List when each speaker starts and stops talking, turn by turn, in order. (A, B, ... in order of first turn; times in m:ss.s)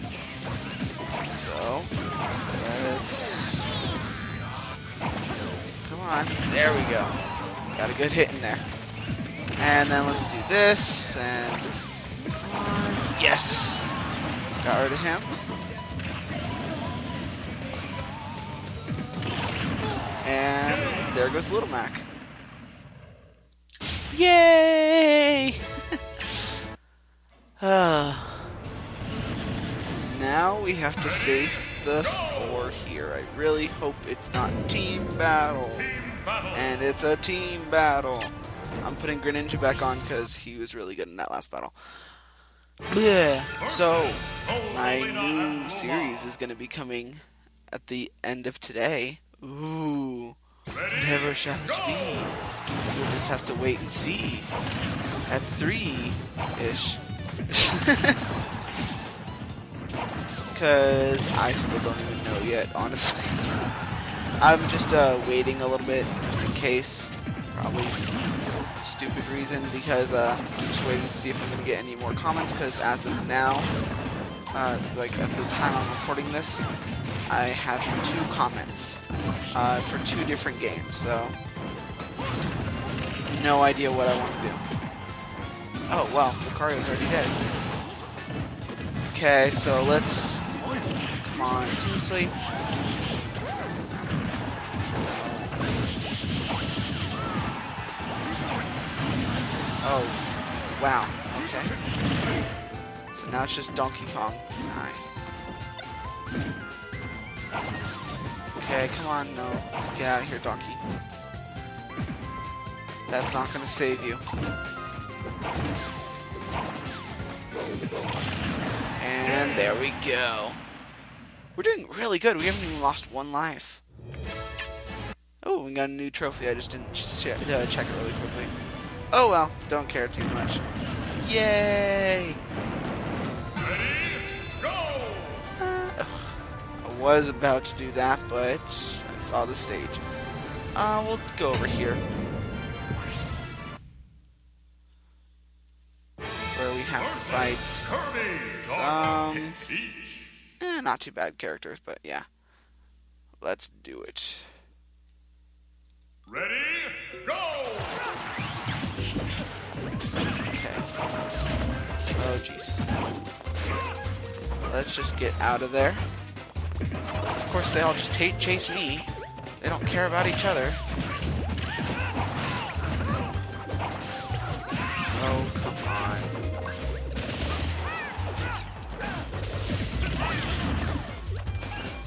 0:01.2-0:01.9 A
0:02.5-0:03.9 A
0:05.8-0:08.6 A
0:09.6-0:11.7 A
0:12.4-0:13.9 A
0:14.6-0:15.4 A
0:20.2-0:22.1 A
0:24.1-0:26.5 A
0:27.6-0:28.6 A
0:30.0-0:35.9 A
0:36.5-0:42.2 A
0:42.9-0:50.4 A
0:50.9-0:54.5 A
0:55.3-0:58.2 A
1:00.5-1:03.6 A
1:04.4-1:08.1 A
1:08.8-1:13.7 A
1:14.5-1:16.7 A
1:17.3-1:21.4 A
1:23.3-1:24.6 A
1:25.9-1:27.4 A
1:29.1-1:32.4 A
1:35.0-1:35.6 A
1:39.8-1:41.8 A
1:43.1-1:45.1 A
1:48.6-1:50.8 A
1:53.1-1:54.2 A
1:59.0-2:00.6 A
2:01.6-2:03.8 A
2:05.4-2:08.5 A
2:09.1-2:10.6 A
2:11.2-2:12.4 A
2:13.2-2:14.0 A
2:15.6-2:20.0 A
2:20.7-2:22.0 A
2:26.5-2:28.0 A
2:28.6-2:29.7 A
2:30.6-2:32.3 A
2:33.4-2:34.6 A
2:40.4-2:40.9 A
2:42.2-2:42.9 A
2:44.6-2:46.1 A
2:47.3-2:50.8 A
2:55.1-2:56.3 A